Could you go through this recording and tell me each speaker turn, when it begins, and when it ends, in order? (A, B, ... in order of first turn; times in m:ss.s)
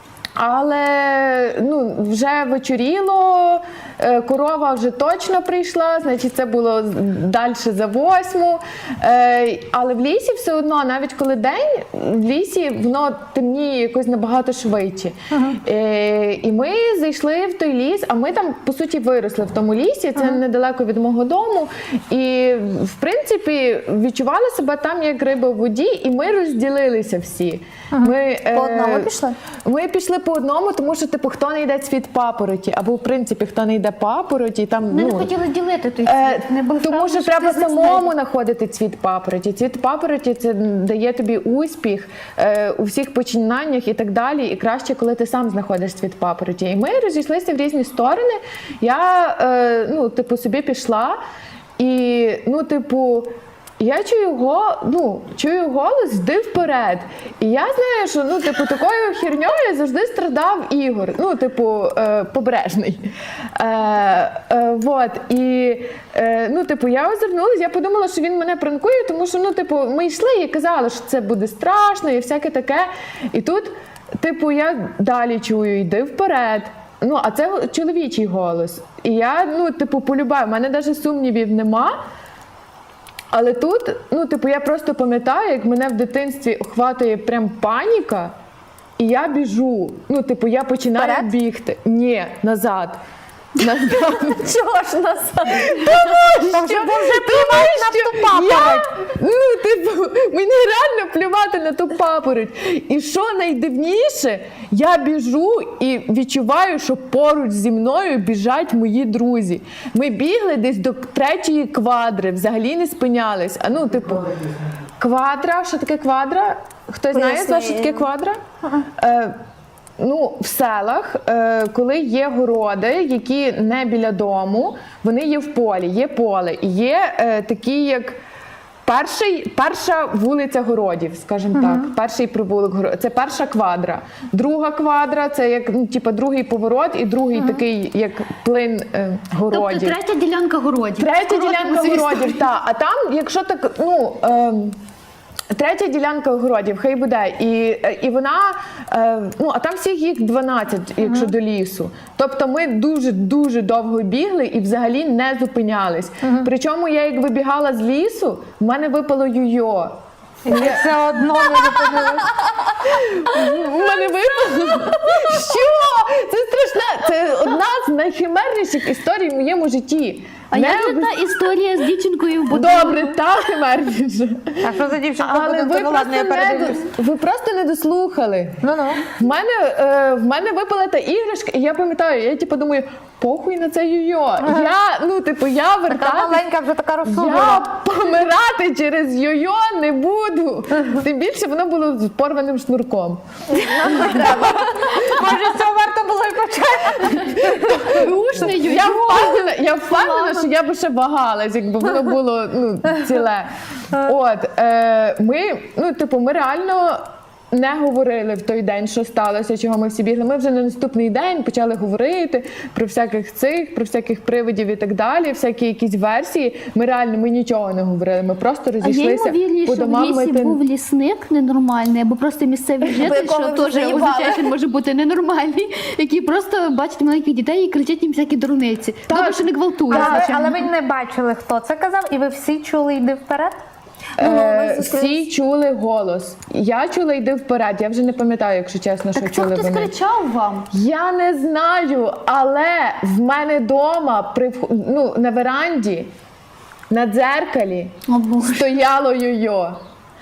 0:00.4-0:35.3 A
0:28.0-0:29.2 B
0:34.9-0:38.1 C
0:36.0-0:51.2 A
0:51.8-1:22.0 A
1:23.3-1:28.3 A
1:29.0-1:33.0 A
1:31.0-1:31.3 B
1:33.6-1:34.6 A
1:35.4-1:59.4 A
1:36.1-1:38.9 B
1:57.2-1:58.0 B
2:00.0-2:08.2 A
2:08.9-2:20.0 A
2:19.5-2:22.4 C
2:21.0-2:24.8 A
2:25.5-2:39.9 A
2:40.5-2:42.7 B
2:40.5-2:42.0 A
2:42.8-2:51.2 A
2:50.5-2:53.2 C
2:52.5-3:06.4 A
2:54.6-2:56.9 B
2:58.6-2:59.0 B
3:04.4-3:04.7 B
3:05.9-3:07.7 B
3:07.0-3:13.2 A
3:13.6-3:17.7 B
3:13.8-3:14.4 A
3:17.2-3:40.6 A
3:17.7-3:20.5 C
3:38.8-3:50.7 C
3:42.9-3:44.4 B
3:49.1-3:50.2 A
3:49.9-3:53.6 B
3:54.2-3:59.9 A
3:54.2-3:55.2 B
3:59.2-4:00.7 C
4:00.7-4:06.1 A
4:06.9-4:09.8 A
4:08.1-4:08.7 C